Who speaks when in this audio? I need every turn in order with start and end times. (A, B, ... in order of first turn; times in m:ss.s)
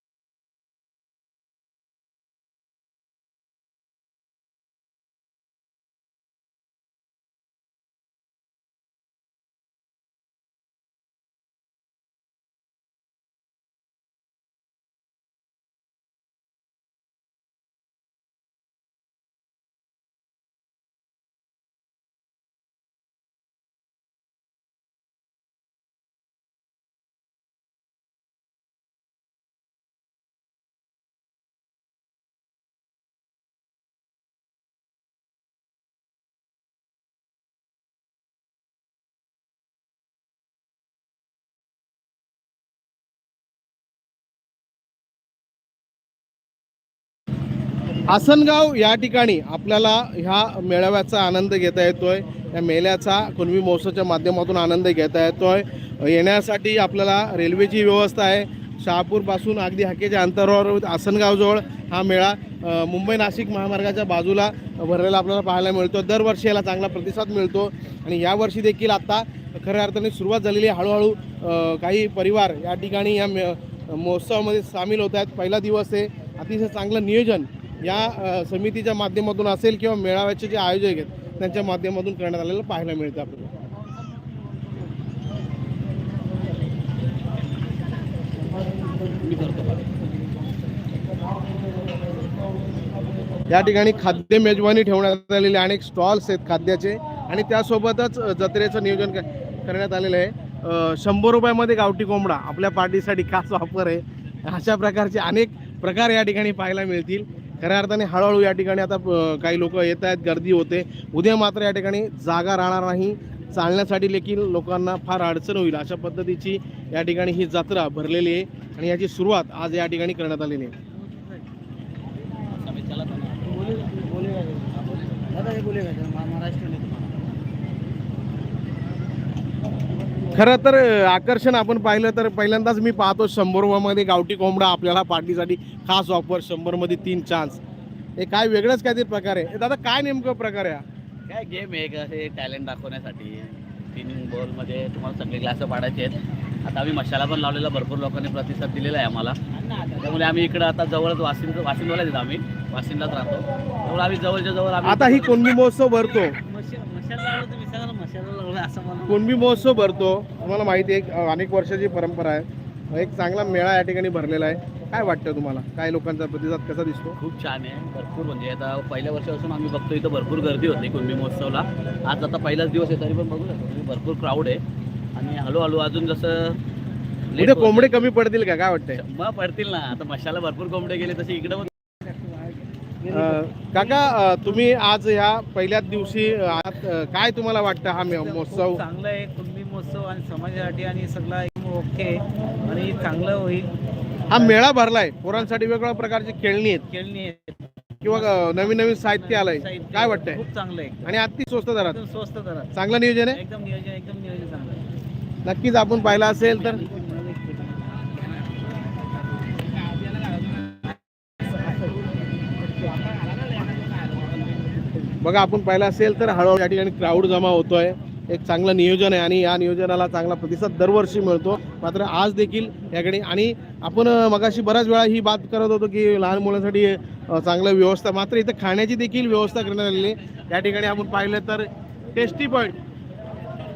0:48.1-1:23.5 A
1:29.2-1:29.9 B
1:33.5-2:00.8 A
2:02.4-2:05.6 B
2:03.6-2:04.7 C
2:05.4-2:07.1 C
2:10.3-2:17.6 A
2:18.2-2:20.8 A
2:21.3-2:35.6 B
2:34.8-2:36.4 A
2:36.4-2:39.2 C
2:39.1-2:47.2 A
2:47.2-2:54.6 B
2:55.2-2:56.6 B
2:57.3-2:58.1 B
2:57.4-2:59.0 A
2:58.9-3:01.7 B
3:03.0-3:04.1 C
3:03.1-3:08.8 A
3:08.2-3:13.7 C
3:14.3-3:16.9 A
3:16.9-3:21.1 C
3:18.0-3:20.4 A
3:21.0-3:22.0 A
3:21.9-3:22.7 C
3:22.7-3:23.4 A
3:23.3-3:24.9 C
3:25.4-3:26.9 A
3:26.2-3:28.2 C
3:35.1-3:52.8 A